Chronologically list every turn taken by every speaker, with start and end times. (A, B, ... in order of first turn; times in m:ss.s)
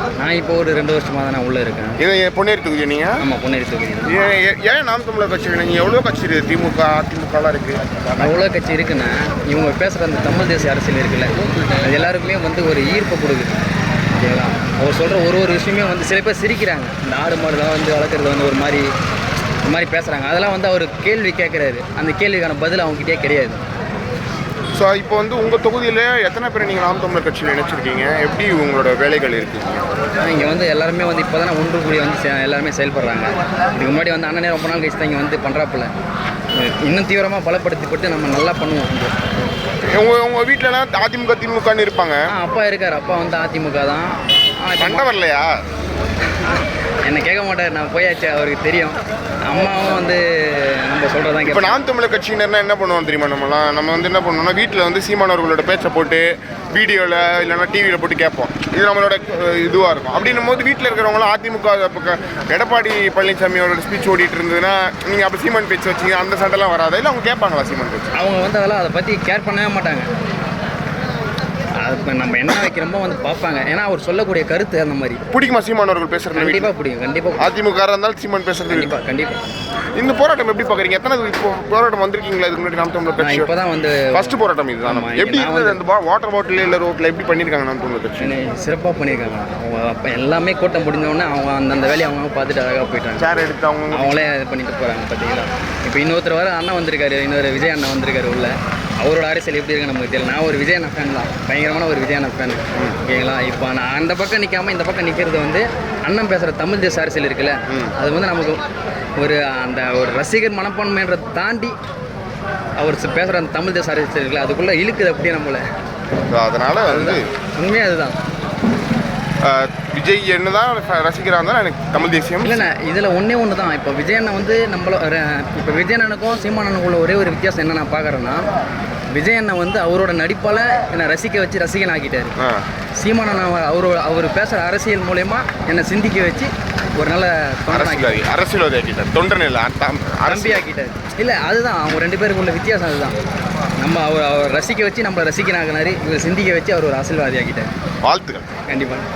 0:00.2-0:02.0 A
0:02.0-0:03.2 B
0:03.2-0:04.2 A
0:04.0-0:08.4 B
0:08.2-0:13.5 A
0:14.2-0:18.9 A
0:19.6-0:23.6 A
0:24.7-0:29.8 B
0:30.2-0:35.9 A
0:36.6-0:39.1 A
0:39.9-0:42.3 B
0:42.3-0:45.1 A
0:44.8-0:45.6 B
0:47.0-0:51.8 A
0:51.4-1:08.1 B
1:08.1-1:10.1 A
1:11.8-1:15.2 A
1:15.3-1:16.7 B
1:16.3-1:17.5 A
1:17.4-1:18.9 B
1:18.7-1:19.4 A
1:20.0-1:23.5 B
1:23.2-1:25.8 A
1:24.1-1:28.4 B
1:28.2-1:33.3 A
1:33.2-1:34.2 B
1:33.9-1:48.6 A
1:47.7-1:47.9 B
1:49.2-1:51.8 A
1:52.8-1:55.6 A
1:56.3-1:57.3 B
1:56.8-1:58.2 A
1:59.4-2:02.6 B
2:02.4-2:08.5 A
2:09.1-2:12.4 A
2:12.4-2:12.6 B
2:13.0-2:18.2 A
2:17.7-2:20.6 B
2:20.3-2:23.2 A
2:23.8-2:27.7 A
2:28.0-2:28.5 B
2:28.7-2:29.1 A